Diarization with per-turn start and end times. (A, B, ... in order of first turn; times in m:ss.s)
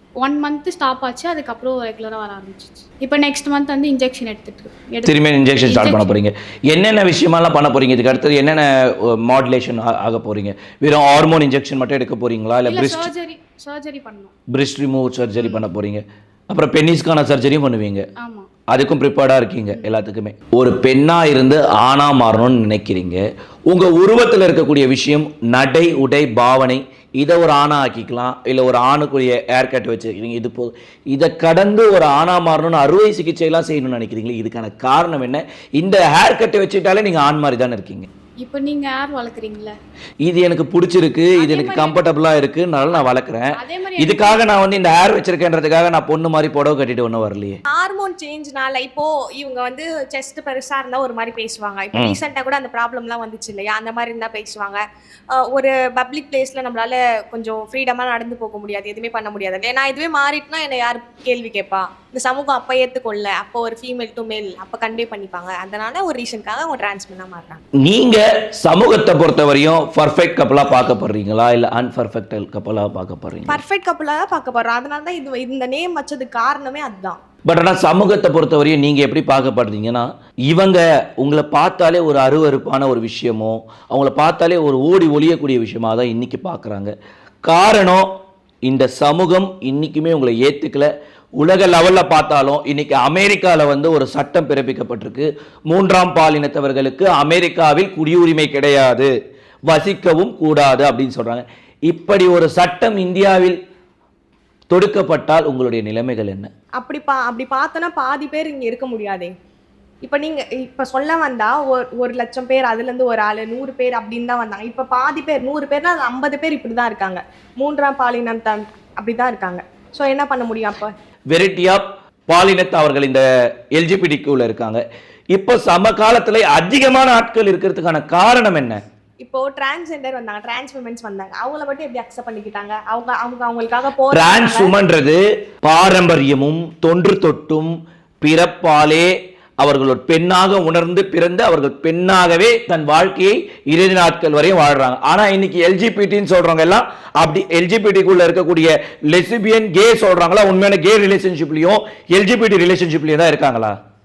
0:00.2-0:05.1 A
0:05.0-0:13.1 B
0:05.7-0:06.2 A
0:12.6-0:14.3 A
0:14.5-0:18.1 B
0:15.4-0:15.7 A
0:18.2-0:18.5 A
0:18.7-0:38.1 B
0:38.4-0:39.8 A
0:40.2-0:47.6 B
0:41.4-0:41.8 A
0:41.5-0:41.9 C
0:43.0-0:44.7 A
0:47.7-0:54.8 C
0:55.3-1:07.6 C
1:07.8-1:13.6 B
1:13.5-1:17.2 C
1:17.5-1:26.9 B
1:27.5-1:28.1 B
1:28.7-1:39.1 B
1:39.7-1:43.6 B
1:44.7-1:46.5 B
1:46.8-1:49.3 C
1:50.0-2:00.9 C
2:01.3-2:03.2 B
2:03.7-2:04.8 B
2:05.3-2:08.8 B
2:09.2-2:14.7 C
2:14.1-2:33.8 B